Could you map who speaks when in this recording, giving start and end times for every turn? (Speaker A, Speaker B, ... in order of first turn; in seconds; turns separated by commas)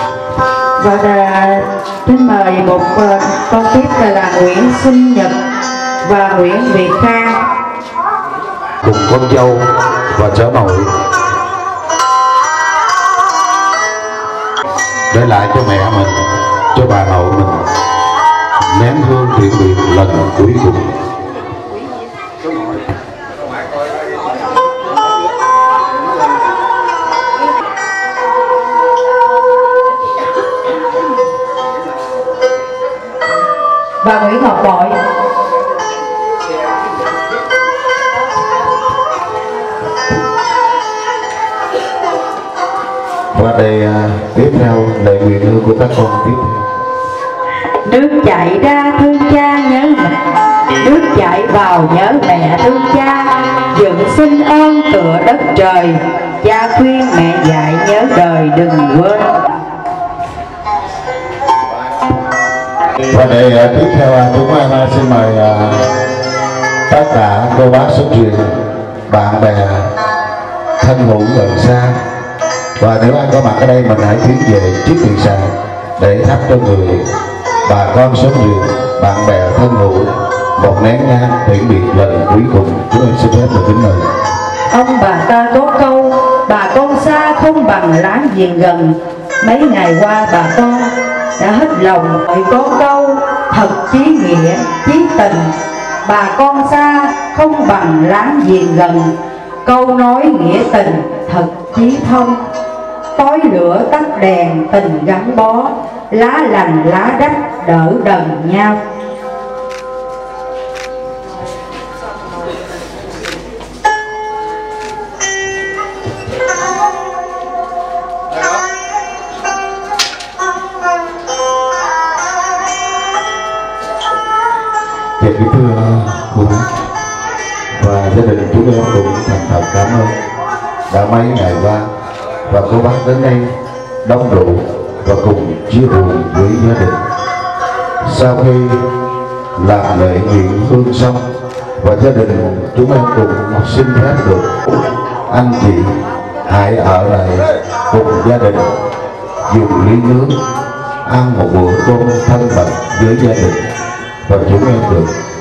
Speaker A: 0.8-5.3, Speaker A: 6.0-7.4, Speaker B: 8.8-10.9, Speaker B: 15.1-16.1, Speaker B: 16.7-17.6, Speaker B: 18.7-20.9, Speaker A: 34.0-35.0, Speaker B: 43.3-46.6, Speaker A: 47.8-50.1, Speaker A: 50.8-59.4, Speaker B: 63.0-65.8, Speaker B: 66.9-68.5, Speaker B: 69.1-69.9, Speaker B: 70.8-72.0, Speaker B: 72.8-77.1, Speaker B: 77.6-84.0, Speaker A: 84.7-95.5, Speaker A: 96.0-99.1, Speaker A: 99.6-102.4, Speaker A: 103.2-108.8, Speaker B: 125.2-126.6, Speaker B: 127.8-130.1, Speaker B: 130.9-131.9, Speaker B: 132.5-133.5, Speaker B: 134.0-137.0, Speaker B: 138.0-138.8, Speaker B: 139.6-141.2, Speaker B: 141.8-144.6, Speaker B: 145.3-145.9, Speaker B: 146.5-148.7, Speaker B: 149.5-150.3, Speaker B: 151.1-153.6, Speaker B: 154.2-155.1